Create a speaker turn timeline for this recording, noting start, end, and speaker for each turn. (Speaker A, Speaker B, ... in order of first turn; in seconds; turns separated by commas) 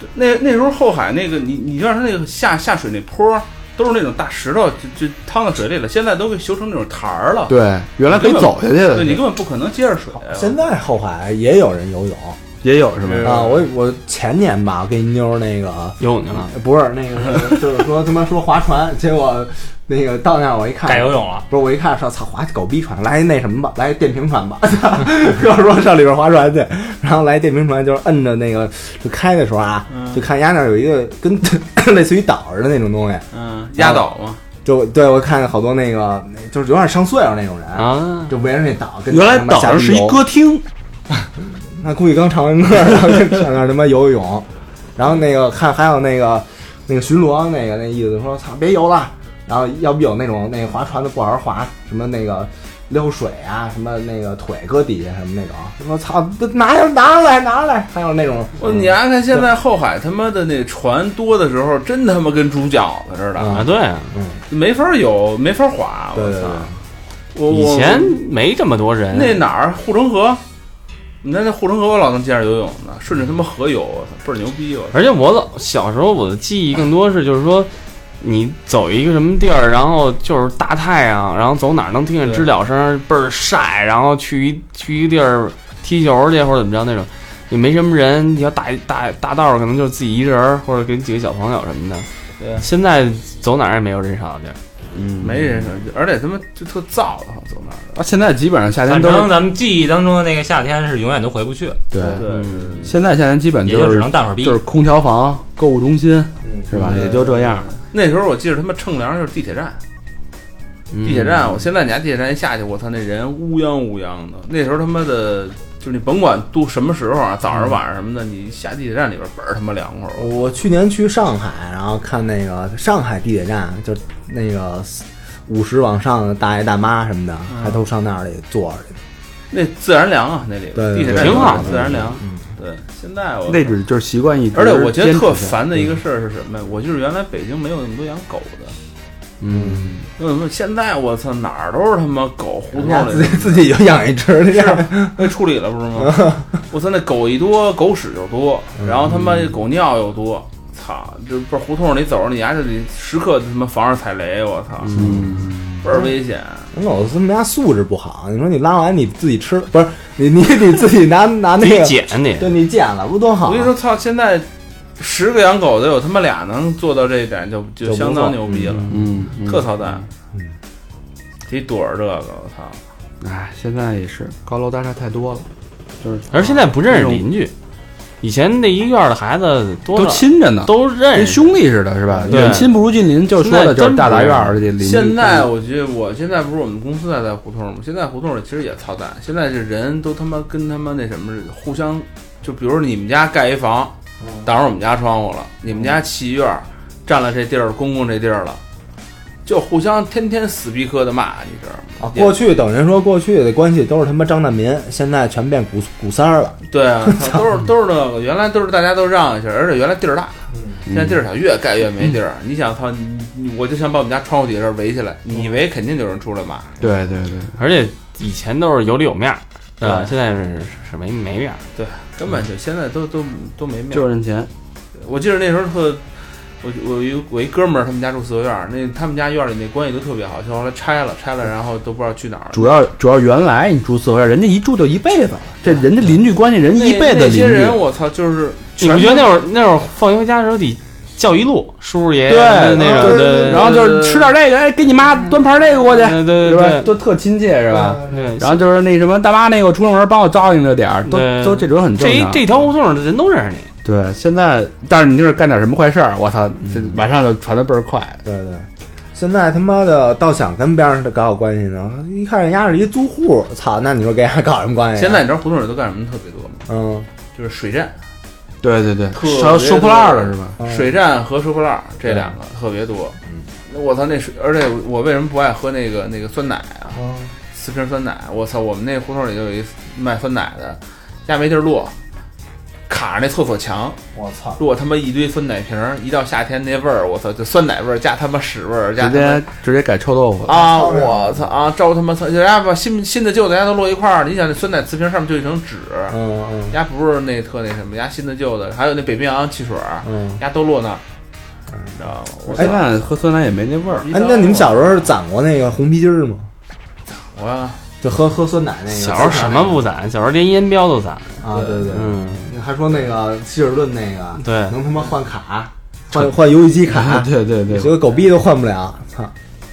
Speaker A: 0.1-7.5, Speaker B: 7.5-9.2, Speaker A: 8.1-10.6, Speaker C: 10.3-12.4, Speaker B: 12.6-13.4, Speaker A: 13.0-13.7, Speaker C: 13.2-33.2, Speaker D: 16.0-16.5, Speaker E: 20.8-21.4, Speaker A: 29.9-30.2, Speaker A: 33.3-34.4, Speaker C: 33.8-34.0, Speaker C: 34.6-40.2, Speaker D: 37.8-38.3, Speaker B: 39.1-40.6, Speaker C: 41.2-44.5, Speaker C: 45.0-58.9, Speaker A: 58.6-63.6, Speaker C: 63.4-64.4, Speaker D: 63.5-64.1, Speaker A: 64.5-66.7, Speaker C: 66.1-66.7, Speaker A: 67.3-68.2, Speaker D: 67.5-69.4, Speaker A: 69.1-70.4, Speaker A: 71.2-75.0, Speaker D: 74.9-94.6, Speaker A: 82.2-82.5, Speaker A: 92.4-92.7, Speaker B: 94.9-95.7, Speaker A: 95.2-97.9, Speaker B: 97.9-99.3, Speaker E: 98.8-101.8, Speaker B: 101.9-102.2, Speaker D: 102.1-102.9, Speaker A: 102.2-102.9, Speaker B: 102.8-107.7, Speaker E: 103.6-104.6, Speaker C: 106.5-107.1, Speaker A: 106.7-109.8, Speaker D: 110.9-111.4, Speaker A: 111.0-120.3, Speaker C: 120.2-128.9, Speaker A: 127.5-127.8, Speaker A: 129.5-133.8, Speaker C: 130.7-132.4, Speaker D: 131.1-131.9, Speaker B: 133.5-135.6, Speaker A: 134.5-138.7, Speaker B: 139.4-140.0, Speaker C: 139.5-140.0, Speaker A: 140.2-143.8, Speaker C: 142.7-145.3, Speaker A: 144.5-155.1, Speaker C: 145.9-146.5, Speaker C: 148.8-149.1, Speaker B: 154.9-155.8, Speaker A: 155.8-156.7, Speaker C: 156.7-163.7, Speaker D: 161.6-162.5, Speaker A: 163.4-164.5, Speaker A: 165.0-170.1, Speaker C: 167.8-168.9, Speaker B: 168.9-169.7, Speaker A: 171.5-172.8, Speaker B: 173.2-175.5, Speaker B: 176.0-177.2, Speaker D: 176.3-177.5, Speaker D: 178.2-181.6, Speaker B: 179.9-185.5, Speaker C: 182.2-182.6, Speaker D: 182.3-182.7, Speaker D: 183.3-184.5, Speaker A: 184.8-198.6, Speaker C: 194.2-194.5, Speaker A: 199.4-202.4, Speaker C: 202.0-207.4, Speaker A: 206.7-216.8, Speaker C: 210.5-210.8, Speaker B: 210.9-211.2, Speaker B: 216.8-217.6, Speaker D: 217.5-221.6, Speaker A: 219.8-220.1, Speaker A: 221.8-224.1, Speaker B: 223.9-224.5, Speaker A: 225.0-226.0, Speaker A: 226.6-232.8, Speaker B: 232.5-237.8, Speaker A: 236.7-239.4, Speaker D: 238.8-243.7, Speaker B: 242.2-252.5, Speaker C: 242.8-243.2, Speaker A: 243.4-244.3, Speaker D: 245.9-246.9, Speaker C: 247.7-248.3, Speaker D: 248.0-248.6, Speaker D: 251.1-253.7, Speaker B: 253.8-258.2, Speaker C: 258.2-265.2, Speaker A: 264.9-266.7, Speaker C: 266.7-267.1, Speaker A: 267.3-267.9, Speaker B: 268.6-270.6, Speaker A: 269.1-273.2, Speaker C: 270.6-270.9, Speaker C: 272.1-272.3, Speaker A: 273.7-277.0, Speaker C: 276.9-277.3, Speaker A: 277.5-281.9, Speaker A: 282.9-284.0, Speaker C: 284.1-284.6, Speaker A: 284.6-289.4, Speaker B: 289.0-290.6, Speaker A: 290.4-296.2, Speaker C: 290.5-291.5, Speaker C: 296.1-296.8, Speaker A: 296.7-301.0, Speaker C: 300.0-300.4, Speaker A: 301.9-302.9, Speaker B: 302.5-304.1, Speaker A: 303.9-305.1, Speaker C: 304.1-306.5, Speaker A: 307.3-307.8, Speaker C: 308.0-309.8, Speaker D: 308.9-312.5, Speaker C: 311.4-319.3, Speaker A: 311.5-311.9, Speaker D: 314.4-314.8, Speaker B: 316.9-318.1